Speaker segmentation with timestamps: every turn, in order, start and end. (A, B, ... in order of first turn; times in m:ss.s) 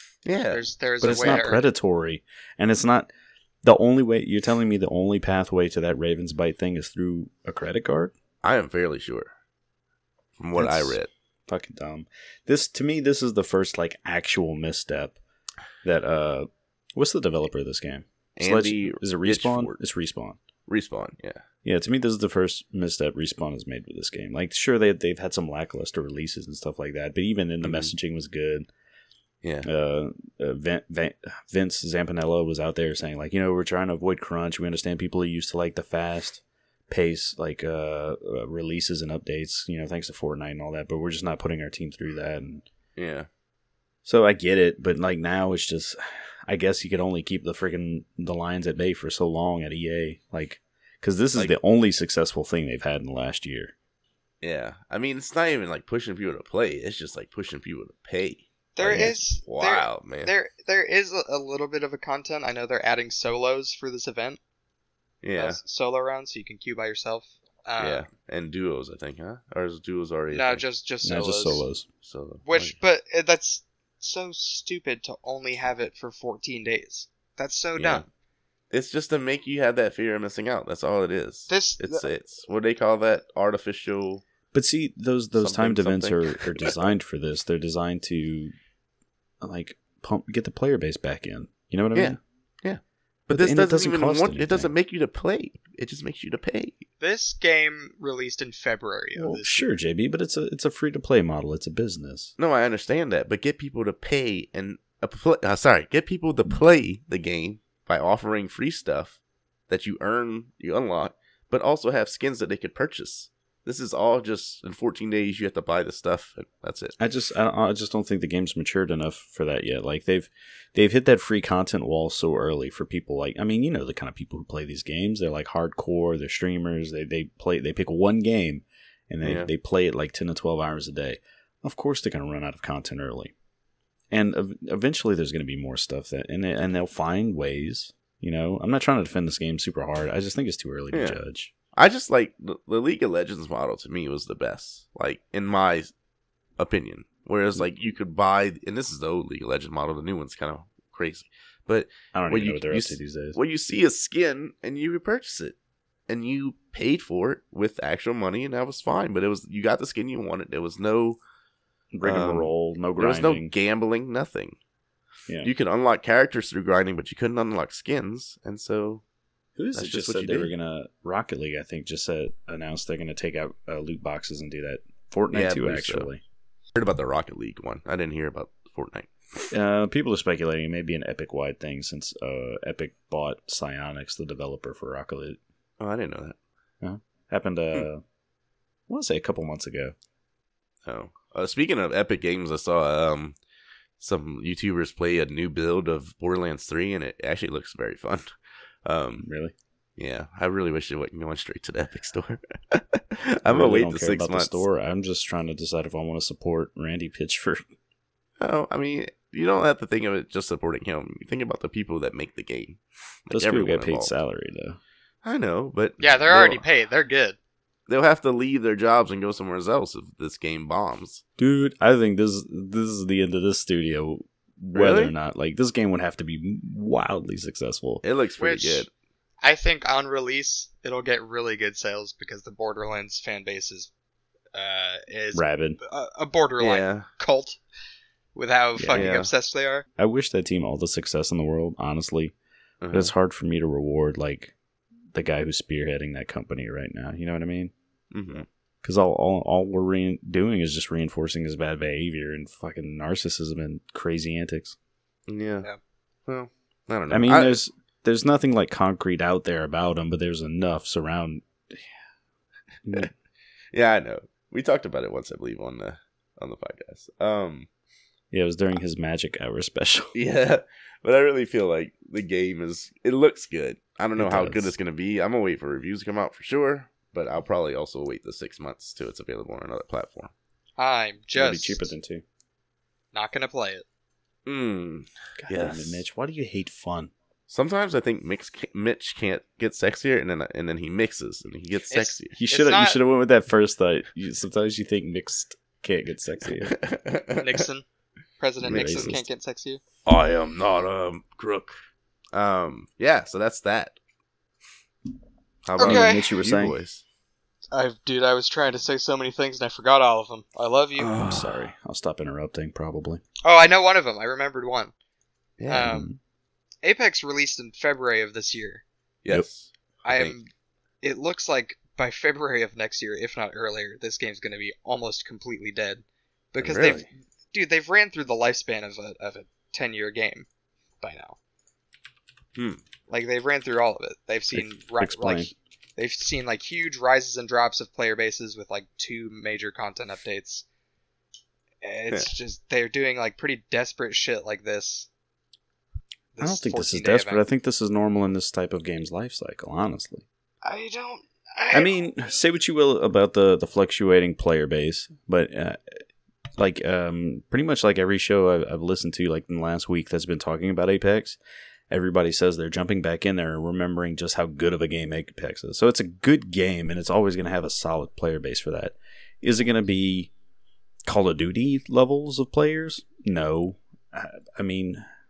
0:00.2-0:01.4 A
0:00.5-0:01.6 B
0:01.0-0:03.1 C
0:03.6-0:08.1 C
0:08.4-0:09.3 A
0:10.4-0:11.1 A
0:10.6-0:15.2 C
0:15.8-0:20.4 C
0:18.4-0:19.8 A
0:20.7-0:21.4 A
0:21.6-0:28.7 C
0:27.6-0:27.9 A
0:29.4-0:29.7 A
0:29.6-0:42.6 C
0:43.0-0:43.3 A
0:44.0-0:53.7 C
0:54.4-1:00.3 A
0:58.8-1:04.4 B
0:58.9-0:59.2 C
1:05.2-1:05.6 A
1:05.4-1:08.1 B
1:07.8-1:10.6 A
1:10.3-1:11.6 B
1:11.0-1:11.9 C
1:12.0-1:12.8 A
1:12.5-1:18.0 B
1:17.8-1:18.1 A
1:18.7-1:24.2 A
1:21.5-1:22.1 B
1:24.5-1:28.5 C
1:25.4-1:26.8 A
1:29.4-1:32.2 C
1:32.0-1:36.8 A
1:33.3-1:34.7 C
1:37.0-1:39.7 B
1:39.2-1:42.3 C
1:42.4-1:49.2 A
1:49.7-1:57.0 A
1:57.0-2:13.3 C
2:09.2-2:09.5 A
2:14.1-2:21.5 C
2:20.9-2:21.2 A
2:21.8-2:25.9 A
2:26.6-2:35.6 A
2:32.1-2:33.4 C
2:36.1-2:41.2 A
2:41.9-2:43.5 C
2:42.0-2:44.6 A
2:45.4-2:49.0 A
2:49.6-2:56.2 C
2:49.7-2:50.5 A
2:55.3-2:56.1 A
2:56.8-2:59.5 A
2:59.5-3:05.4 C
3:05.8-3:06.4 A
3:06.8-3:08.0 C
3:08.9-3:10.0 C
3:10.9-3:13.4 A
3:14.0-3:18.3 A
3:18.8-3:19.3 A
3:19.2-3:19.5 C
3:20.0-3:24.6 A
3:23.5-3:27.6 C
3:28.4-3:34.1 A
3:33.3-3:34.8 C
3:35.2-3:36.6 A
3:36.0-3:37.4 B
3:37.9-3:41.2 A
3:41.4-3:48.0 C
3:44.7-3:45.1 A
3:48.0-3:48.9 A
3:48.4-3:48.9 B
3:49.4-3:53.9 B
3:54.5-3:57.6 B
3:55.3-3:55.8 C
3:56.6-3:57.1 A
3:58.4-3:59.9 B
3:58.8-3:59.2 C
3:58.9-3:59.3 A
4:00.0-4:02.4 C
4:02.8-4:03.1 A
4:02.9-4:04.6 C
4:05.1-4:07.7 C
4:08.1-4:08.5 A
4:08.8-4:14.8 C
4:15.3-4:15.7 A
4:16.3-4:17.6 A
4:17.1-4:21.8 C
4:22.9-4:23.1 C
4:23.7-4:27.7 A
4:28.3-4:30.1 C
4:30.1-4:40.3 A
4:34.2-4:34.7 C
4:40.8-4:41.9 B
4:41.4-4:42.2 C
4:43.1-4:43.8 B
4:44.5-4:46.0 A
4:45.4-4:47.1 C
4:47.5-4:52.4 A
4:51.9-4:53.0 B
4:52.4-4:56.8 C
4:56.7-4:57.6 A
4:57.4-4:57.8 B
4:58.4-4:59.8 B
4:58.6-4:59.2 A
4:58.6-4:59.2 C
5:00.1-5:01.8 A
5:02.3-5:04.0 A
5:05.7-5:07.0 A
5:05.8-5:06.8 C
5:05.8-5:06.4 B
5:07.7-5:11.2 B
5:11.0-5:11.6 A
5:11.2-5:13.2 C
5:13.4-5:14.9 B
5:15.6-5:15.9 A
5:15.7-5:16.1 B
5:15.8-5:16.2 C
5:16.8-5:18.8 B
5:19.2-5:20.4 A
5:20.0-5:20.5 B
5:21.0-5:30.5 B
5:26.6-5:27.1 A
5:31.0-5:31.4 B
5:32.6-5:32.8 A
5:33.1-5:40.6 B
5:34.5-5:35.5 C
5:41.8-5:45.1 B
5:46.4-5:47.4 B
5:46.4-5:50.2 C
5:50.6-5:52.1 B
5:51.7-5:56.0 C
5:56.6-6:01.4 C
6:01.9-6:10.3 C
6:11.1-6:15.0 C